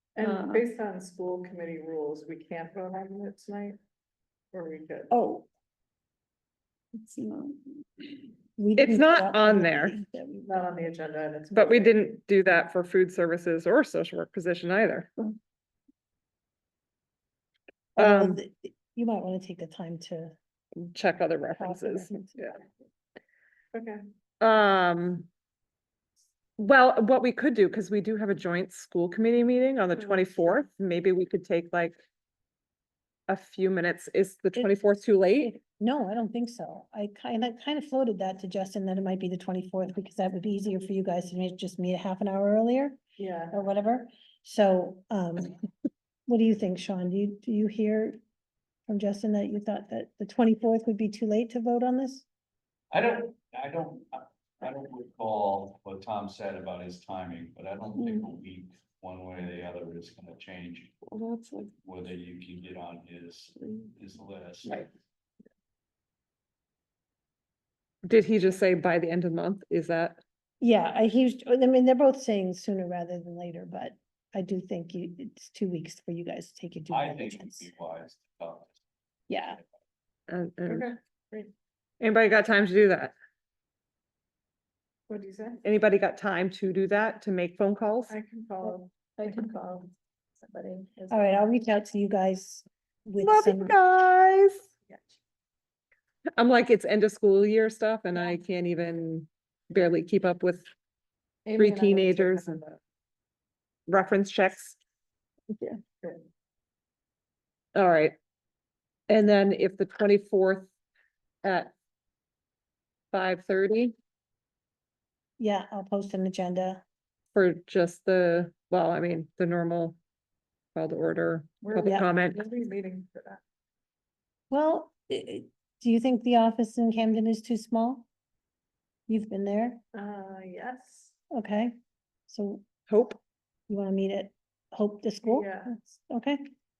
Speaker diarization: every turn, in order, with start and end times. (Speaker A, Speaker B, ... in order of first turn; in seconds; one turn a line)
Speaker A: 0.2-3.8
Speaker A: 4.5-5.1
Speaker B: 8.6-10.7
Speaker C: 8.8-10.0
Speaker A: 10.5-12.0
Speaker C: 11.5-15.1
Speaker B: 18.0-20.4
Speaker C: 18.0-18.4
Speaker C: 20.8-22.5
Speaker B: 21.6-22.5
Speaker A: 23.7-24.0
Speaker C: 24.4-25.3
Speaker C: 26.6-32.0
Speaker C: 33.3-35.5
Speaker B: 35.4-43.0
Speaker A: 43.2-43.6
Speaker B: 43.5-45.6
Speaker B: 46.3-48.2
Speaker B: 48.9-52.3
Speaker D: 52.9-61.0
Speaker C: 58.0-58.2
Speaker C: 61.1-61.7
Speaker D: 61.8-64.9
Speaker C: 68.0-70.2
Speaker B: 70.6-77.7
Speaker D: 76.9-78.8
Speaker B: 79.3-79.6
Speaker C: 80.3-80.9
Speaker A: 80.7-81.5
Speaker C: 82.0-83.2
Speaker A: 85.1-85.6
Speaker C: 85.6-88.2
Speaker A: 88.1-89.4
Speaker E: 89.2-91.2
Speaker B: 91.1-93.8
Speaker C: 93.2-94.7
Speaker A: 94.9-95.2
Speaker C: 96.3-100.7
Speaker A: 101.5-102.8
Speaker C: 101.5-102.6
Speaker C: 103.9-104.8
Speaker C: 107.7-108.2
Speaker C: 109.1-110.7
Speaker C: 111.4-111.7
Speaker C: 113.1-114.0
Speaker B: 115.4-116.8
Speaker C: 117.3-120.0
Speaker C: 120.8-122.4
Speaker A: 121.6-123.4
Speaker B: 121.8-122.1
Speaker B: 124.5-128.1
Speaker B: 129.1-129.8
Speaker A: 129.9-131.2
Speaker B: 131.3-132.7
Speaker C: 132.9-133.2
Speaker B: 133.7-136.4
Speaker A: 135.2-135.8